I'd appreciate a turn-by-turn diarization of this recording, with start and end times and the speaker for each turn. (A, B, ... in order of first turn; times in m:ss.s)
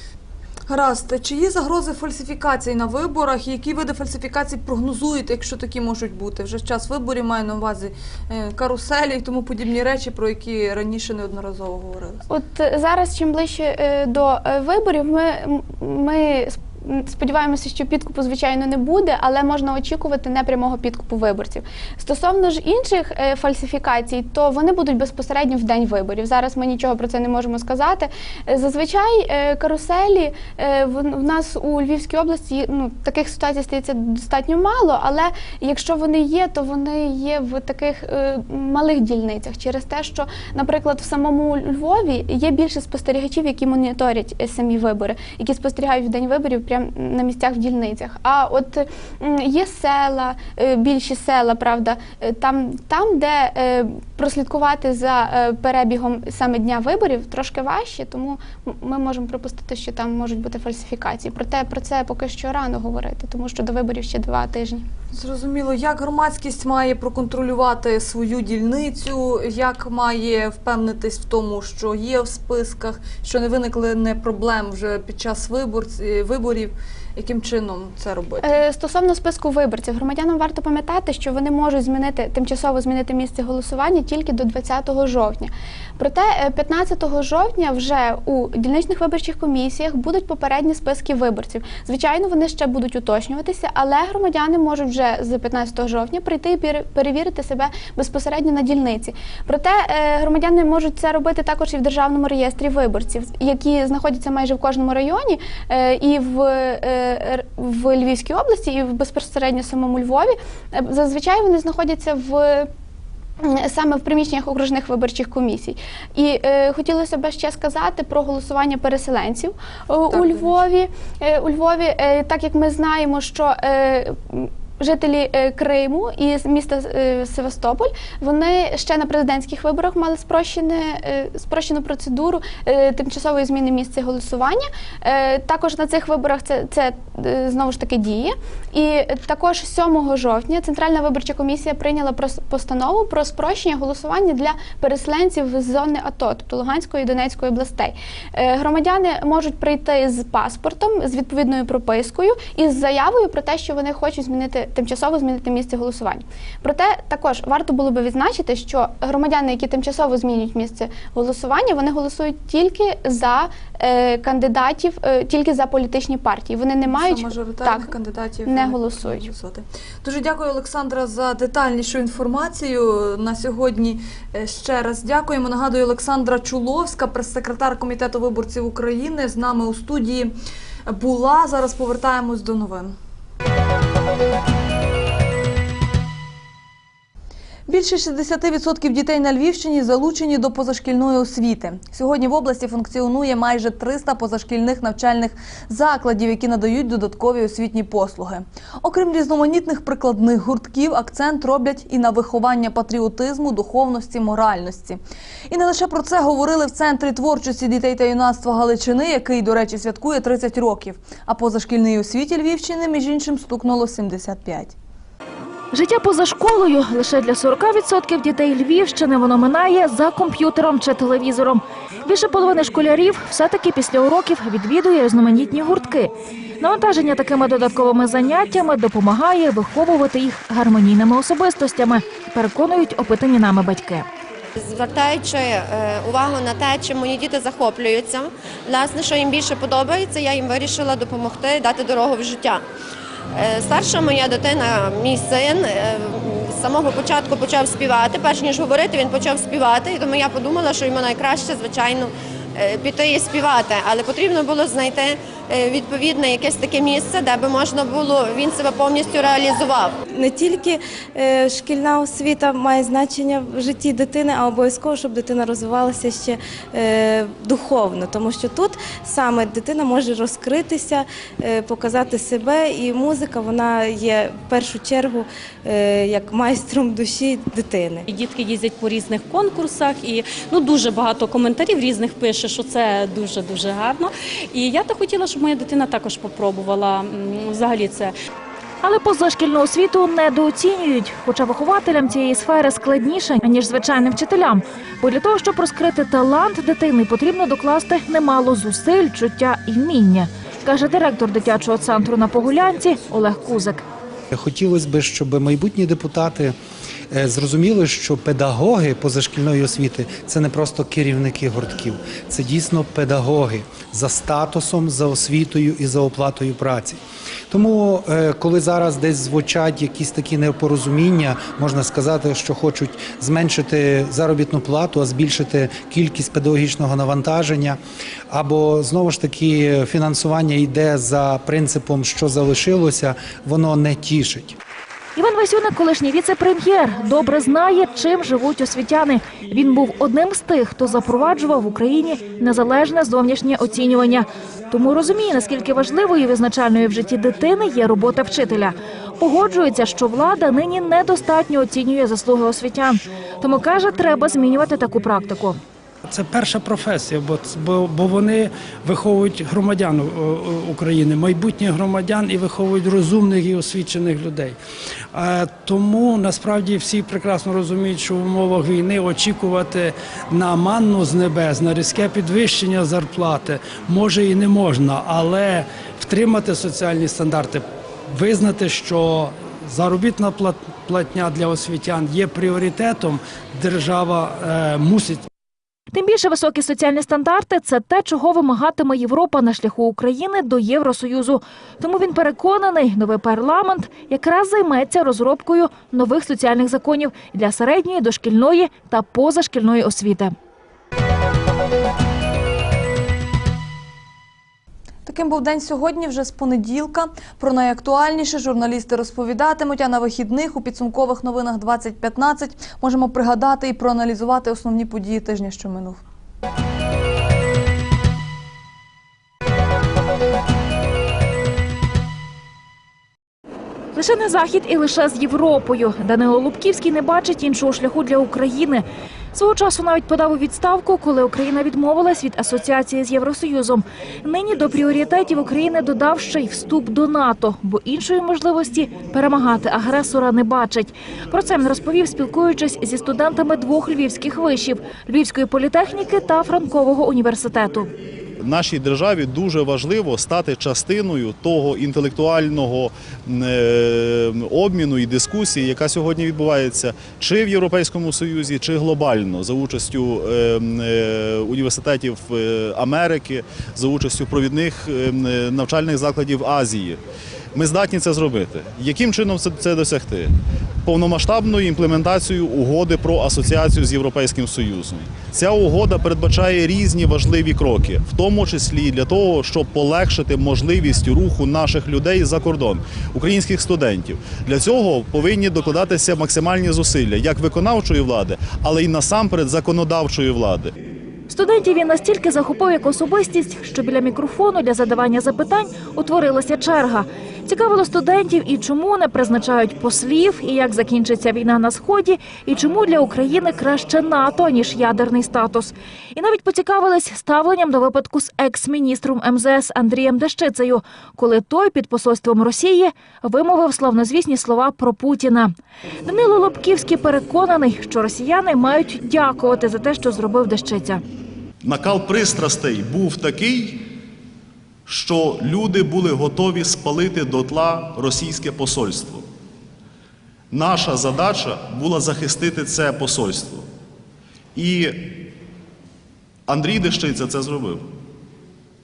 0:00.7-0:12.2 A
0:12.3-1:04.9 B
1:05.1-1:18.6 A
1:18.4-1:52.7 B
1:53.4-2:49.3 B
2:00.1-2:00.6 A
2:46.9-3:00.4 A
3:00.9-3:02.9 A
3:07.7-3:34.8 A
3:35.7-3:54.1 C
3:54.6-4:02.6 D
4:03.3-4:20.0 D
4:20.1-4:38.1 E
4:38.1-4:48.1 F
4:48.8-5:03.8 C
5:04.3-5:06.5 G
5:07.1-5:17.0 G
5:17.5-5:27.8 G
5:28.3-5:34.6 G
5:35.2-5:55.6 C
5:56.1-6:04.6 H
6:05.1-6:25.3 H
6:25.9-6:40.3 C
6:45.1-6:56.0 A
7:04.0-7:27.9 C
7:28.4-7:47.0 I
7:47.6-7:50.3 I
7:50.8-8:10.7 I
8:11.3-8:35.5 C
8:36.0-8:41.0 C
8:41.6-8:43.8 I
8:44.9-8:49.2 I
8:50.5-8:53.7 I
8:54.6-8:55.1 I
8:56.5-8:57.9 I